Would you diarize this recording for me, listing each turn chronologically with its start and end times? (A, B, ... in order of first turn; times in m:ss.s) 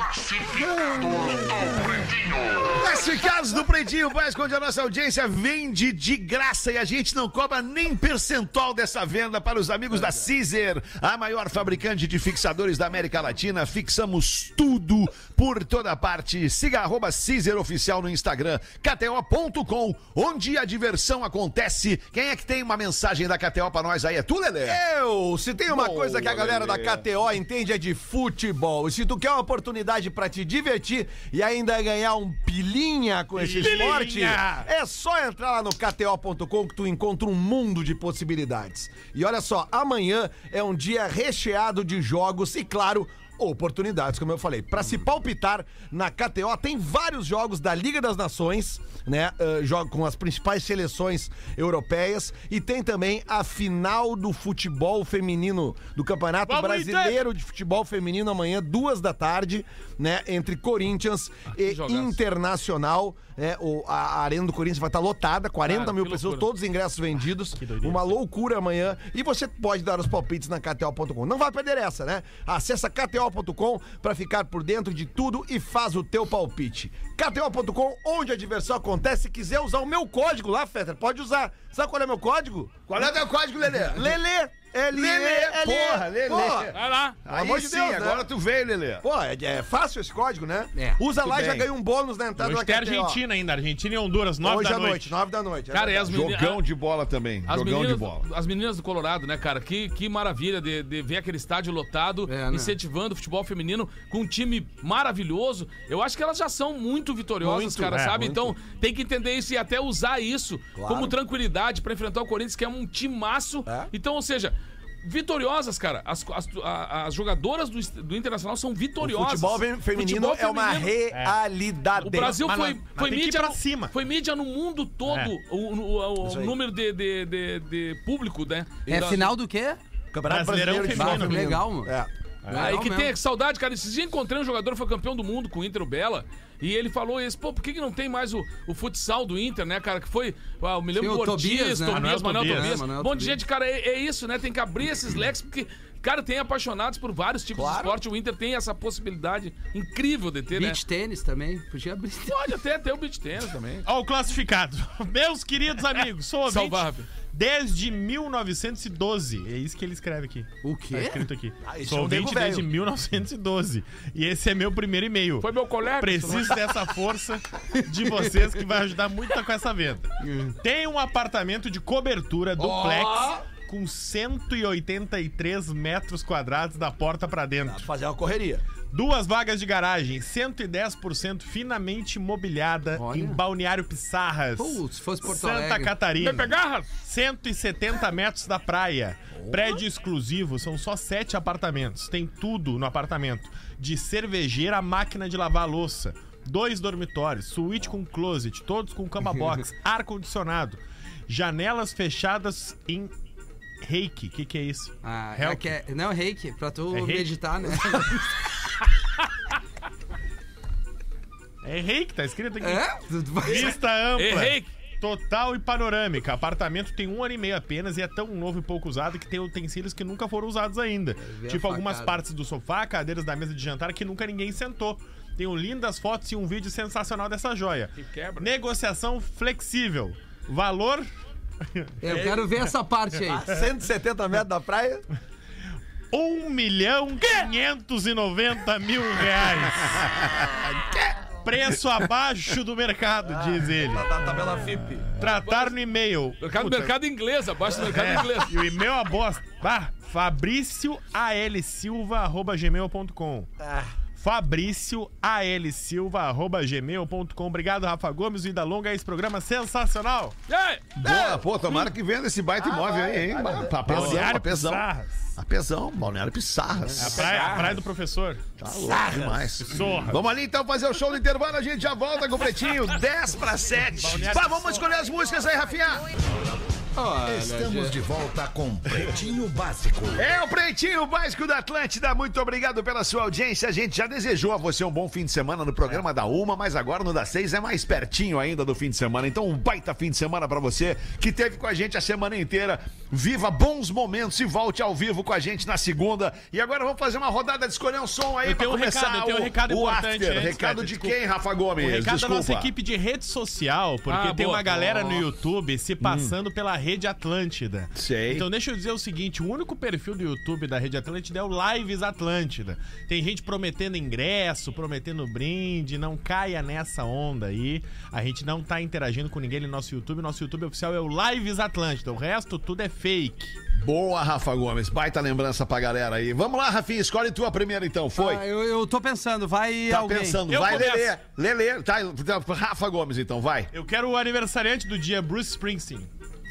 0:00.3-0:02.5 A
0:02.7-0:24.8 B
0:24.6-1:23.0 A
0:25.7-0:27.1 B
0:33.4-0:34.7 C
0:56.5-0:57.2 C
1:01.5-1:02.2 D
1:05.6-1:06.5 D
1:07.6-1:08.2 C
1:22.9-1:24.2 B
1:23.6-1:26.7 A
1:24.9-1:29.1 B
1:26.7-1:27.2 D
1:27.3-1:28.3 A
1:29.0-1:33.2 A
1:30.8-1:31.0 E
1:31.2-1:31.7 C
1:32.4-1:35.2 C
1:34.4-1:36.1 A
1:35.7-1:36.6 D
1:36.1-1:38.2 B
1:37.5-2:01.0 D
1:42.3-1:42.8 E
1:47.4-1:48.6 A
1:50.8-1:51.2 A
1:59.0-2:02.4 A
2:01.1-2:01.4 C
2:02.0-2:03.9 C
2:02.0-2:09.2 D
2:06.2-2:06.6 A
2:08.9-2:09.3 A
2:08.9-2:09.8 E
2:10.1-2:12.1 A
2:10.3-2:11.6 C
2:10.9-2:11.9 E
2:12.4-2:12.8 C
2:12.5-2:13.2 E
2:12.5-2:30.8 D
2:21.0-2:23.4 E
2:21.9-2:22.8 C
2:27.5-2:28.0 A
2:30.5-2:32.4 E
2:32.3-2:33.9 D
2:33.8-2:45.5 C
2:36.0-2:37.1 D
2:40.6-2:41.3 E
2:41.6-2:42.7 A
2:45.4-2:46.7 D
2:46.0-2:57.8 C
2:47.8-2:48.4 E
2:50.2-2:50.6 E
2:52.6-2:53.4 A
2:57.6-2:58.7 A
2:58.9-3:23.1 C
3:03.0-3:03.4 E
3:04.6-3:05.9 E
3:06.2-3:06.9 D
3:23.8-3:25.7 C
3:25.0-3:28.4 E
3:26.9-3:28.0 C
3:31.6-3:32.9 C
3:32.6-3:33.8 E
3:33.4-3:51.1 C
3:34.2-3:34.7 D
3:41.2-3:42.2 E
3:48.0-3:48.5 D
3:51.6-3:52.4 C
3:52.0-3:53.5 E
3:53.3-3:55.0 A
3:56.1-4:00.2 C
4:00.0-4:01.1 B
4:01.4-4:04.1 C
4:03.2-4:05.2 A
4:05.1-4:06.9 C
4:05.2-4:05.8 D
4:06.4-4:08.5 D
4:07.8-4:13.5 C
4:13.6-4:14.0 A
4:14.2-4:20.4 C
4:20.5-4:20.9 D
4:21.0-4:27.5 B
4:21.0-4:21.5 A
4:22.6-4:24.3 A
4:23.8-4:25.2 C
4:27.0-4:28.5 C
4:27.2-4:27.8 D
4:28.6-4:36.2 B
4:28.7-4:29.7 A
4:29.6-4:30.2 C
4:34.0-4:34.9 C
4:37.0-4:38.0 E
4:37.1-4:40.2 F
4:40.2-5:02.7 B
4:58.4-5:01.1 C
5:01.8-5:23.6 C
5:04.1-5:05.2 D
5:06.0-5:06.3 B
5:08.0-5:08.5 B
5:23.7-5:28.4 B
5:28.2-5:30.4 E
5:29.9-5:33.7 B
5:30.5-5:31.1 C
5:33.7-5:36.1 C